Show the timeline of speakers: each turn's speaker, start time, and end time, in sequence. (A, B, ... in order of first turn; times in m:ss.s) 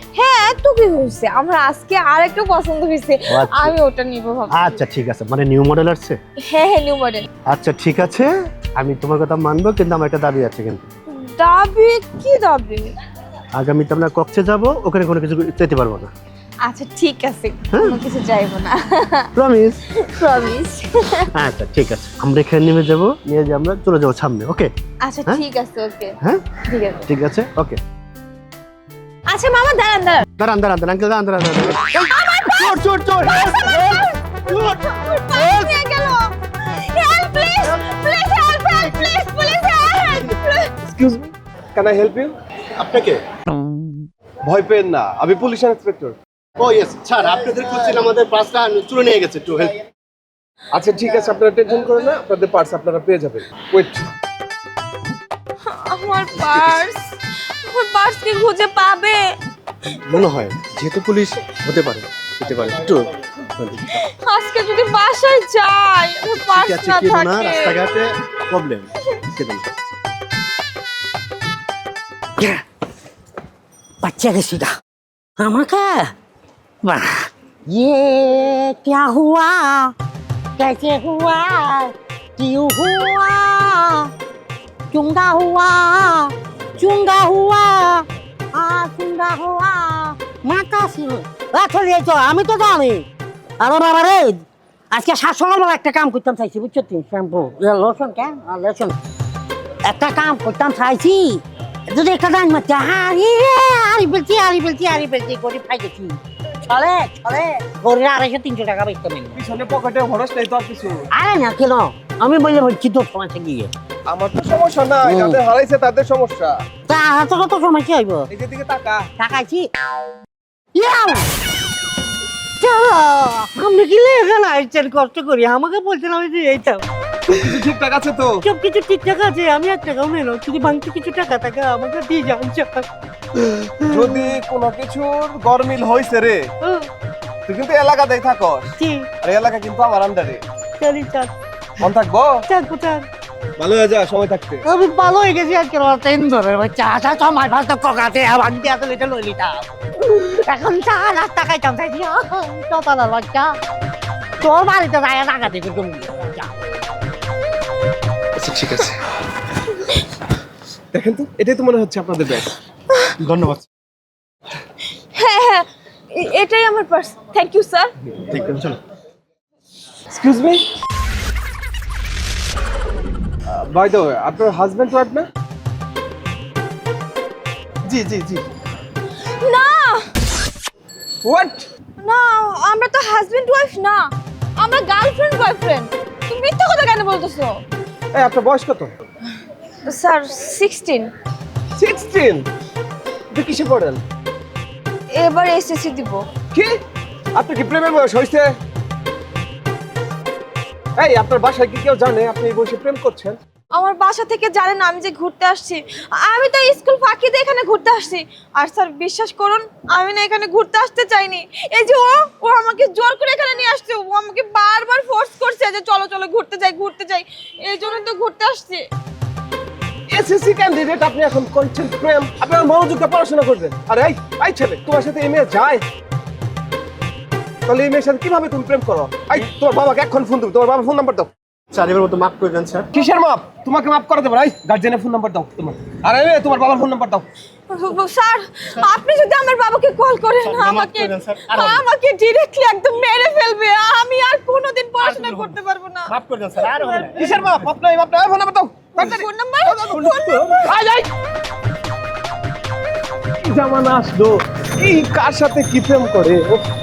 0:00.2-0:04.8 A
0:03.3-0:03.8 B
0:04.5-0:06.2 B
0:06.5-0:07.3 A
0:07.5-0:10.8 B
0:11.1-0:12.9 A
0:13.6-0:16.1 B
0:16.6-0:19.3 A
0:17.7-0:18.0 B
0:19.3-0:19.8 B
0:19.9-0:21.3 A
0:21.3-0:24.7 B
0:25.0-0:27.0 A
0:27.0-0:27.8 B
0:29.3-0:30.2 A
0:30.4-0:34.8 B
0:32.0-0:40.7 A
0:40.8-0:42.3 C
0:42.8-0:43.2 B
0:44.4-0:46.2 C
0:46.6-0:49.8 B
0:50.7-0:54.1 C
0:55.7-0:59.2 A
0:56.4-0:56.8 B
1:00.0-1:03.0 B
1:03.5-1:04.0 B
1:03.8-1:07.9 A
1:06.4-1:09.6 B
1:12.4-1:12.6 D
1:14.0-1:14.8 D
1:15.4-1:16.1 D
1:16.8-1:19.9 D
1:20.6-1:24.1 D
1:24.9-1:33.1 D
1:33.6-1:39.0 D
1:39.8-1:49.4 D
1:49.4-1:51.0 C
1:51.1-1:53.7 D
1:54.1-1:56.5 C
1:55.0-1:55.4 D
1:56.9-1:58.3 D
1:58.3-1:59.0 C
1:59.2-1:59.7 D
2:00.7-2:01.3 D
2:02.6-2:06.8 D
2:07.3-2:08.4 C
2:08.4-2:12.9 D
2:13.4-2:14.1 D
2:13.9-2:16.4 C
2:17.5-2:20.4 C
2:18.8-2:19.1 D
2:20.8-2:21.3 D
2:21.8-2:22.3 C
2:22.5-2:23.1 D
2:23.6-2:24.6 C
2:24.6-2:33.6 D
2:34.4-2:36.7 D
2:38.4-2:39.0 C
2:40.9-2:42.5 C
2:43.2-2:43.6 B
2:45.1-2:47.9 A
2:48.3-2:48.8 B
2:50.1-2:50.6 C
2:53.5-2:55.3 C
2:57.9-2:58.4 C
2:59.4-3:00.1 A
3:01.2-3:01.7 C
3:02.0-3:07.6 A
3:08.1-3:08.9 C
3:09.8-3:11.1 A
3:11.8-3:12.4 C
3:13.3-3:14.0 C
3:15.1-3:16.2 A
3:17.3-3:18.5 C
3:21.0-3:23.4 C
3:23.7-3:38.8 A
3:40.1-3:45.8 C
3:47.6-3:51.3 C
3:51.7-3:52.9 B
3:52.9-3:57.2 C
3:57.7-4:07.1 A
4:00.4-4:01.8 B
4:05.0-4:05.6 B
4:06.1-4:07.3 B
4:07.1-4:11.1 C
4:09.0-4:10.7 A
4:13.4-4:16.6 C